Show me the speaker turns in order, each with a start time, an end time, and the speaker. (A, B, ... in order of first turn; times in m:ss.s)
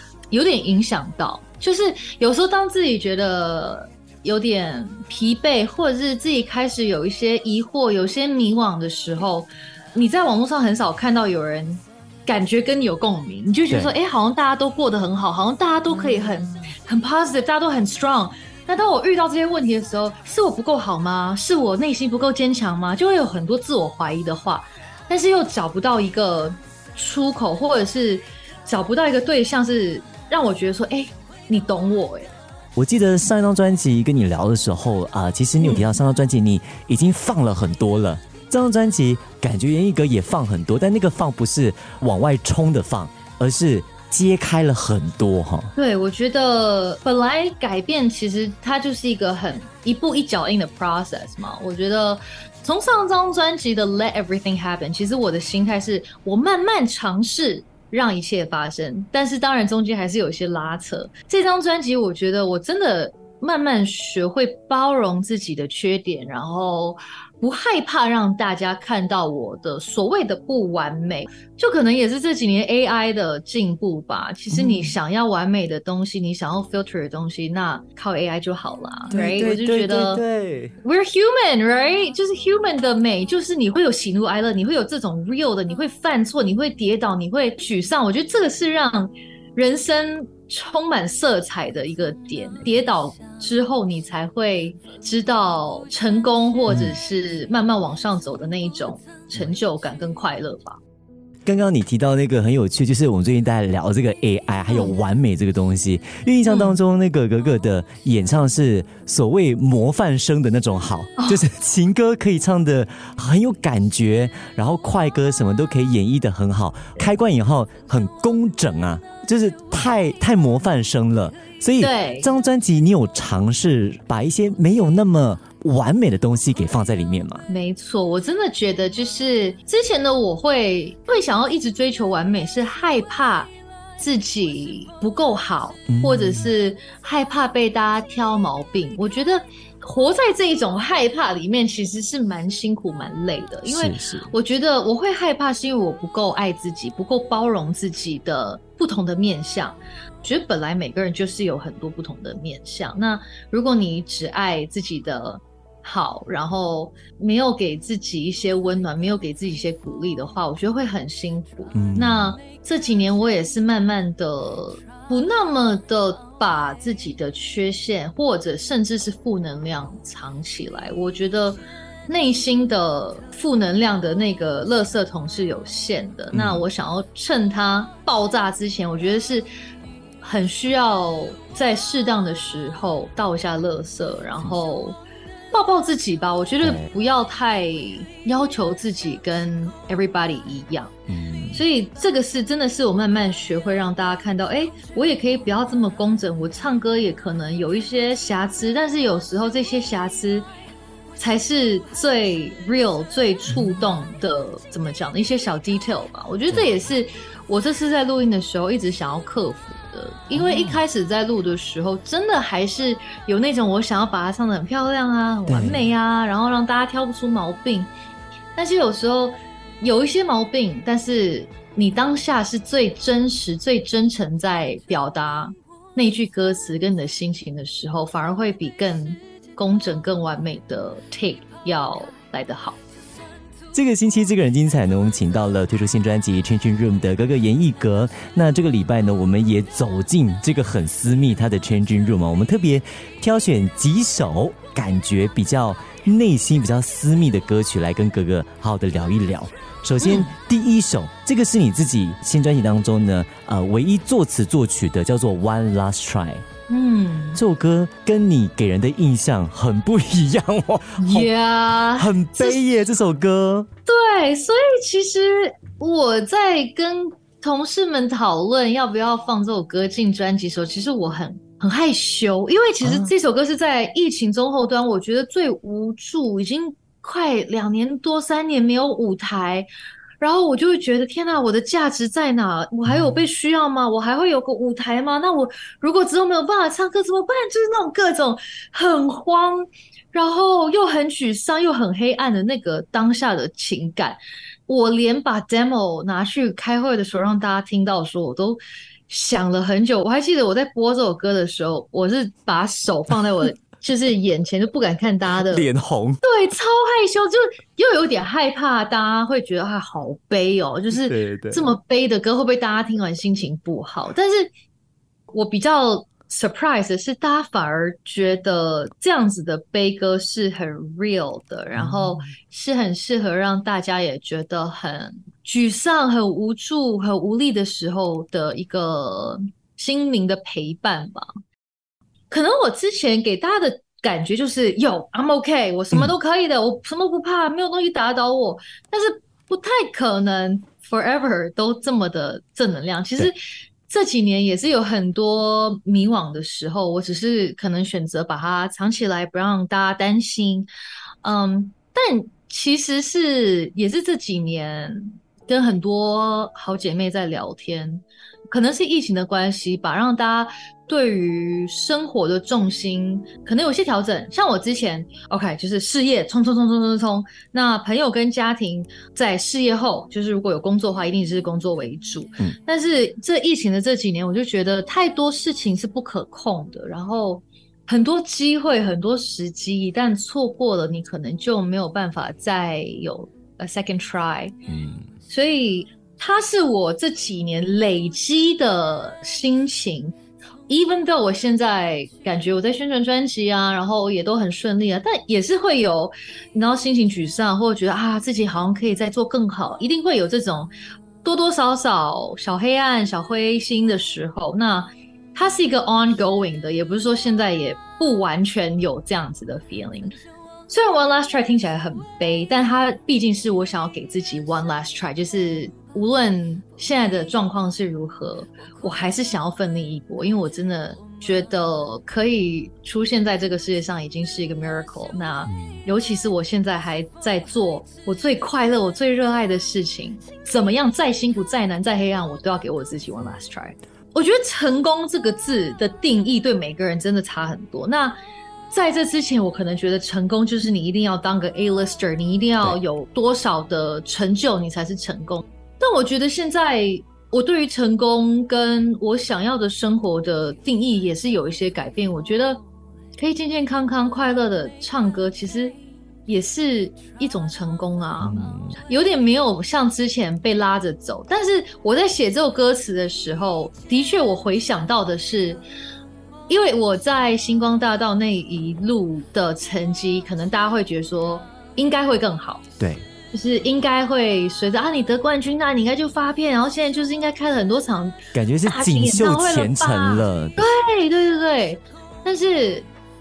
0:00.3-0:32.3 A
0:32.8-0:45.7 B
0:35.6-0:35.9 A
0:45.8-1:20.2 A
1:14.5-1:15.0 B
1:19.1-1:20.8 B
1:20.8-1:40.8 A
1:36.7-1:37.0 B
1:41.5-2:07.4 B
1:44.7-1:45.0 A
1:46.5-1:46.8 A
2:01.8-2:02.3 A
2:07.5-2:59.5 A
2:15.9-2:16.5 B
2:23.7-2:24.3 B
2:41.7-2:42.4 B
2:56.3-2:56.6 B
3:00.2-3:05.0 A
3:05.5-3:10.9 A
3:06.6-3:06.9 B
3:11.1-3:11.6 B
3:11.5-3:20.5 A
3:21.2-3:37.9 A
3:30.3-3:30.8 B
3:35.5-3:35.8 B
3:38.6-3:52.8 A
3:53.7-4:16.4 B
4:10.0-4:10.3 A
4:16.7-4:17.4 A
4:17.4-4:21.3 B
4:21.0-4:22.6 A
4:22.0-4:23.7 B
4:23.9-4:39.7 A
4:32.8-4:33.1 B
4:40.2-5:05.7 A
4:42.9-4:43.2 B
5:05.5-5:06.2 B
5:06.2-5:14.5 A
5:10.9-5:11.7 B
5:15.3-5:31.3 A
5:21.8-5:22.3 B
5:32.3-5:50.7 A
5:51.2-6:24.6 A
6:24.7-6:25.1 B
6:25.3-6:30.1 A
6:30.7-6:40.7 A
6:41.2-6:50.2 A
6:50.7-7:18.2 A
7:18.7-7:32.6 A
7:33.2-7:45.6 A
7:38.2-7:38.8 B
7:46.5-7:52.6 A
7:52.8-7:53.1 B
7:53.3-8:02.9 A
7:58.3-8:00.7 B